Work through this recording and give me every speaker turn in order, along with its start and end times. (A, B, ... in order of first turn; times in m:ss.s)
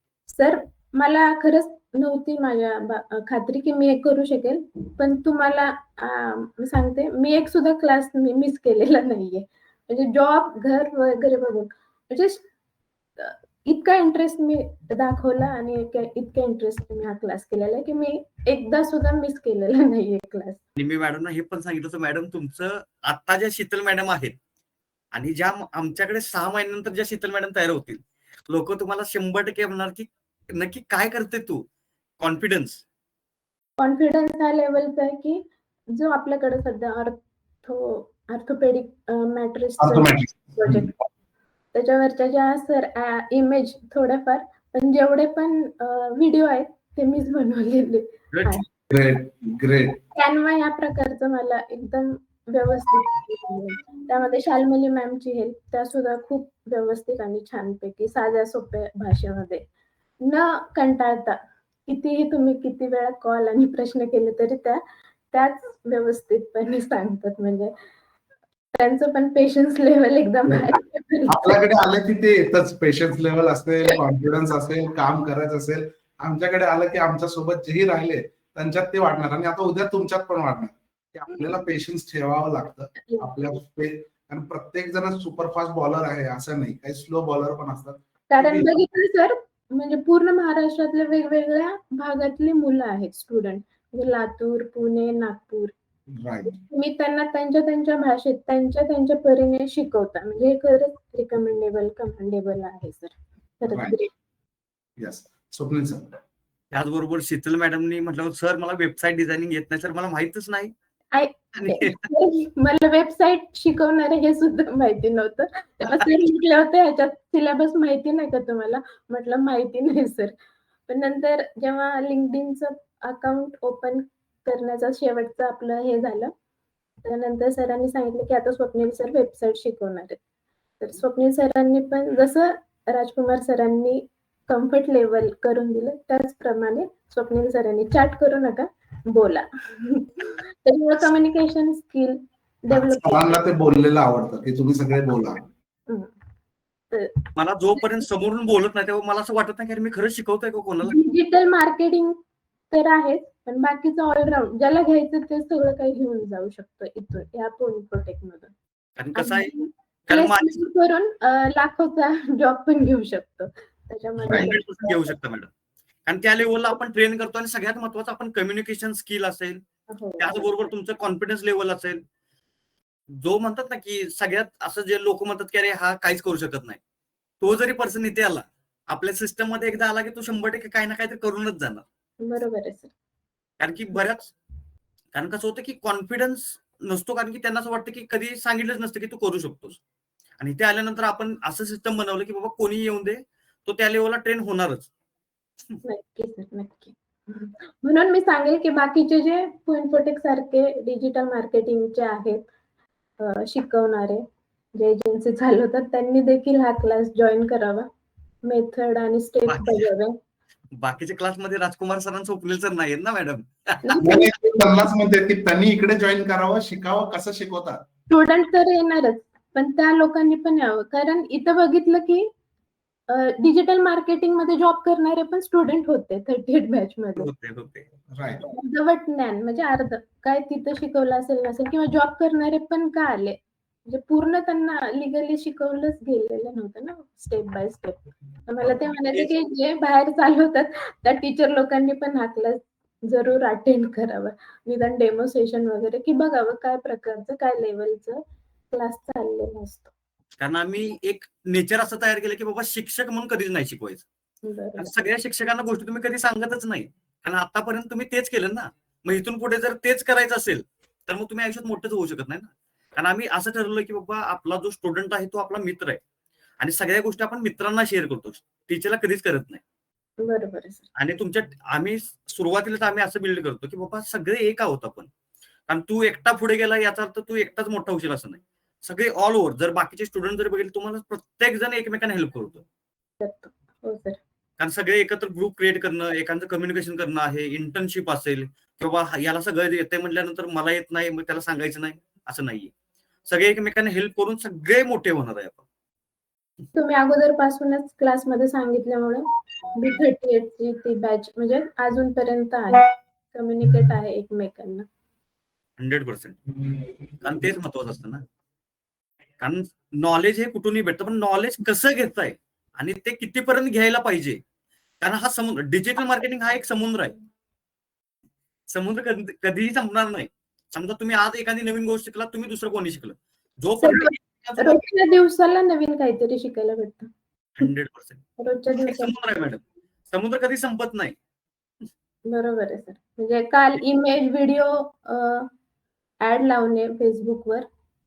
0:00.3-0:12.5 A
0:13.2-0:20.6 A
0:20.8-0:24.4 B
0:25.1-0:31.6 B
0:32.2-0:32.8 B
0:33.8-0:40.9 A
0:39.8-0:40.9 C
0:41.7-0:48.7 A
0:48.3-0:48.6 B
0:48.9-0:50.0 C
0:50.1-0:59.6 A
1:00.2-1:07.7 A
1:08.7-1:11.6 A
1:11.3-1:28.7 C
1:21.3-1:21.6 A
1:23.0-1:23.3 A
1:28.3-1:35.7 A
1:36.2-1:36.6 C
1:36.5-1:44.1 A
1:43.7-1:44.0 C
1:45.0-1:46.1 C
1:46.7-1:50.7 B
1:51.1-2:00.3 A
1:51.5-1:52.1 B
2:00.9-2:06.3 A
2:07.0-2:10.2 A
2:10.8-2:23.4 A
2:22.7-2:25.4 C
2:26.9-2:27.3 A
2:27.4-2:31.0 B
2:30.8-2:32.2 A
2:32.7-2:38.5 A
2:39.0-2:39.5 B
2:39.2-2:45.0 A
2:40.1-2:40.6 B
2:44.2-2:44.5 C
2:44.3-2:45.5 B
2:46.1-2:49.6 B
2:49.9-2:50.5 A
2:50.2-2:52.0 B
2:53.2-2:56.8 B
2:57.4-3:01.8 B
3:02.2-3:02.9 A
3:03.6-3:04.3 B
3:05.1-3:09.8 B
3:10.4-3:14.9 B
3:15.9-3:22.5 A
3:23.2-3:24.2 A
3:24.8-3:27.9 A
3:28.4-3:30.1 A
3:29.5-3:29.9 B
3:30.8-3:34.3 B
3:33.8-3:34.2 A
3:34.0-3:37.8 C
3:38.1-3:42.3 A
3:43.1-3:47.3 A
3:47.2-3:47.9 B
3:48.1-3:48.4 C
3:48.5-4:09.9 A
3:58.6-3:59.3 B
4:10.4-4:14.1 B
4:14.4-4:14.9 A
4:14.8-4:26.0 B
4:26.6-4:29.6 B
4:30.2-4:30.9 A
4:31.0-4:35.1 B
4:35.7-4:42.6 B
4:43.2-4:44.2 A
4:44.6-4:52.7 B
4:53.3-4:55.6 B
4:56.7-5:04.8 A
5:05.8-5:06.4 B
5:07.2-5:08.2 B
5:09.4-5:14.4 B
5:15.0-5:17.2 B
5:18.7-5:24.9 B
5:23.8-5:27.1 A
5:27.6-5:28.2 B
5:28.4-5:29.2 A
5:28.7-5:31.2 B
5:32.3-5:35.5 A
5:36.2-5:37.7 A